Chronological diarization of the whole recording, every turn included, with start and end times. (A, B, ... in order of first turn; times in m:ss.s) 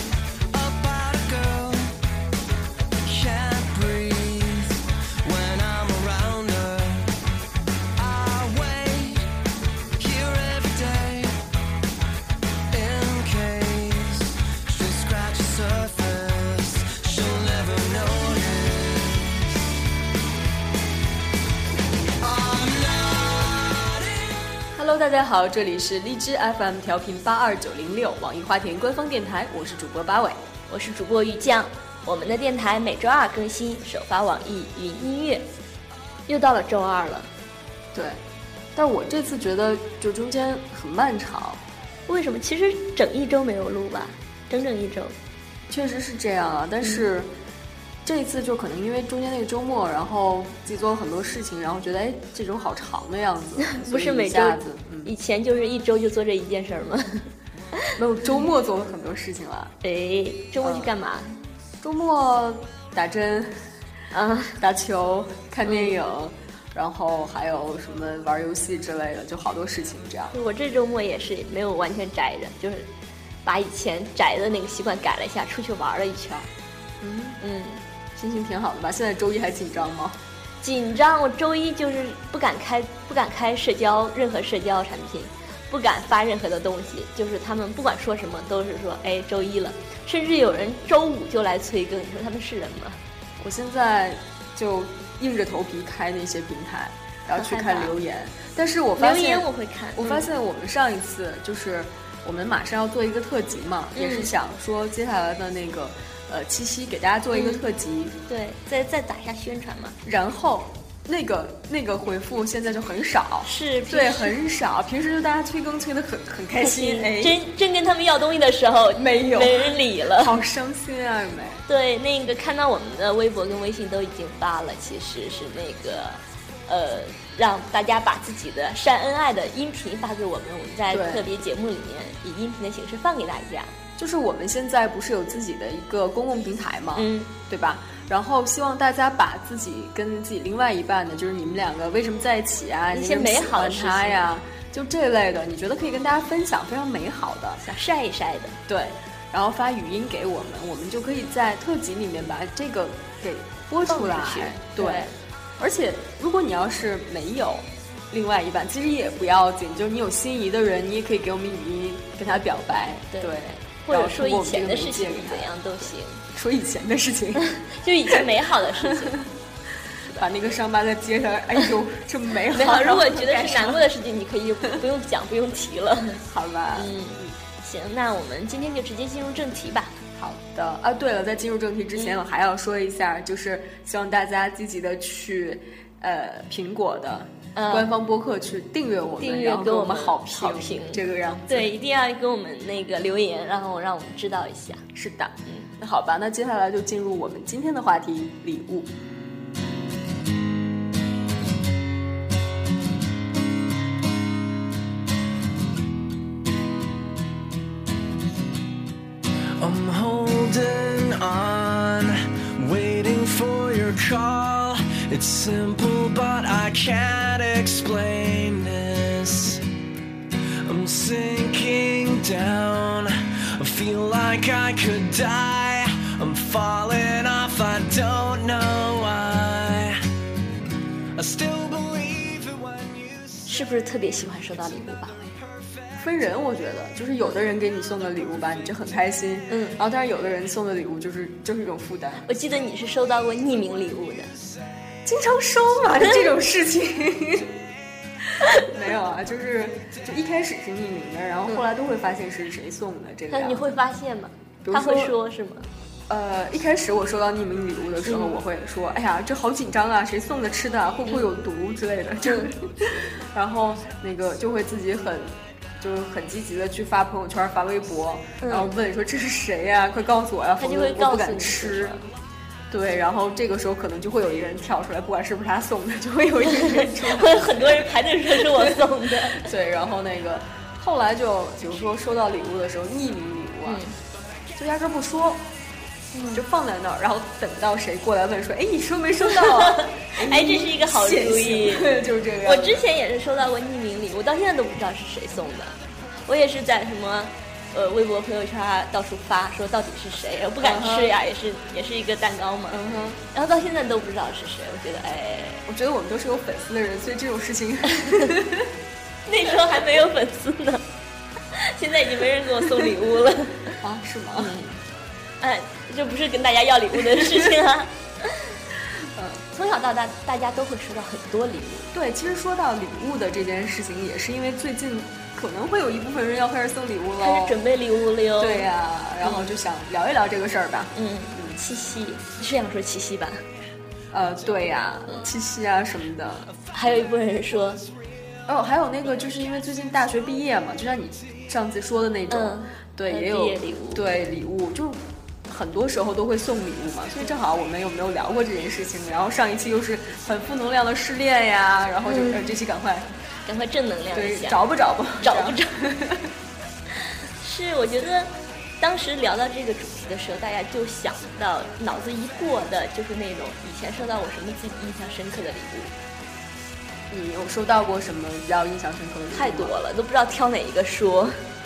0:00.5-0:02.0 A
0:03.0-0:07.1 A
0:08.0-0:09.3 A
0:10.0-0:11.4 A
0:12.7-0:19.4 A
0:22.2-0:24.0 A
0:24.7-0:30.4 B
0:30.7-0:35.5 C
0:36.3-0:37.3 C
0:37.9-0:38.2 B
0:38.8-0:41.6 B
0:42.1-0:45.2 C
0:45.7-0:47.3 B
0:48.0-0:55.1 B
0:53.6-0:57.3 C
0:58.0-0:59.7 B
0:59.8-1:01.4 C
1:00.6-1:00.9 B
1:01.8-1:10.3 B
1:05.7-1:06.0 C
1:10.3-1:12.9 C
1:13.4-1:16.5 C
1:17.0-1:17.4 B
1:17.4-1:17.8 C
1:18.2-1:20.2 B
1:20.6-1:33.0 C
1:33.4-1:48.2 B
1:37.3-1:37.9 C
1:39.0-1:40.3 C
1:44.0-1:44.3 C
1:47.3-1:47.6 C
1:48.3-1:50.0 C
1:50.0-1:57.4 B
1:53.4-1:54.4 C
1:56.6-2:00.4 C
1:58.9-2:01.6 B
2:01.7-2:13.7 C
2:10.9-2:11.3 B
2:14.0-2:27.6 B
2:17.0-2:17.3 C
2:22.9-2:24.2 C
2:27.6-2:28.6 C
2:28.7-2:47.5 B
2:33.9-2:35.2 C
2:43.1-2:46.2 C
2:47.4-2:49.2 C
2:48.8-2:49.2 B
2:50.1-2:53.8 B
2:52.5-2:56.2 C
2:56.2-2:57.3 B
2:56.7-3:00.0 C
3:00.2-3:11.7 B
3:07.6-3:07.9 C
3:09.2-3:14.8 C
3:14.9-3:18.9 B
3:29.6-3:39.6 A
3:40.6-3:50.0 A
3:51.2-3:53.4 A
3:53.5-3:55.2 C
3:56.0-4:02.3 B
3:59.5-3:59.8 C
4:02.3-4:04.3 C
4:05.0-4:07.6 B
4:08.6-4:13.8 B
4:13.3-4:15.7 C
4:14.6-4:15.2 B
4:16.1-4:32.0 B
4:18.1-4:18.4 C
4:22.2-4:22.5 C
4:28.4-4:28.7 C
4:30.6-4:32.0 C
4:32.7-4:43.8 B
4:36.6-4:39.5 C
4:43.6-4:44.0 C
4:44.6-4:45.5 B
4:46.1-4:46.4 C
4:46.3-4:52.8 B
4:49.4-5:05.6 C
5:00.6-5:01.2 B
5:02.7-5:03.2 B
5:05.7-5:08.7 B
5:08.0-5:08.3 C
5:09.3-5:10.8 C
5:11.5-5:13.7 C
5:13.8-5:14.6 B
5:14.4-5:14.8 C
5:15.4-5:18.5 C
5:17.2-5:17.5 B
5:19.0-5:19.4 B
5:19.5-5:21.9 C
5:21.9-5:27.6 B
5:27.2-5:28.7 C
5:28.4-5:31.6 B
5:29.2-5:29.5 C
5:31.0-5:33.4 C
5:34.1-5:37.0 B
5:36.7-5:37.8 C
5:38.5-5:53.1 B
5:42.3-5:44.0 C
5:52.0-5:52.5 C
5:53.4-5:54.6 C
5:54.1-5:56.3 B
5:55.2-5:55.7 C
5:57.4-6:05.9 C
6:07.1-6:09.8 B
6:09.3-6:11.4 C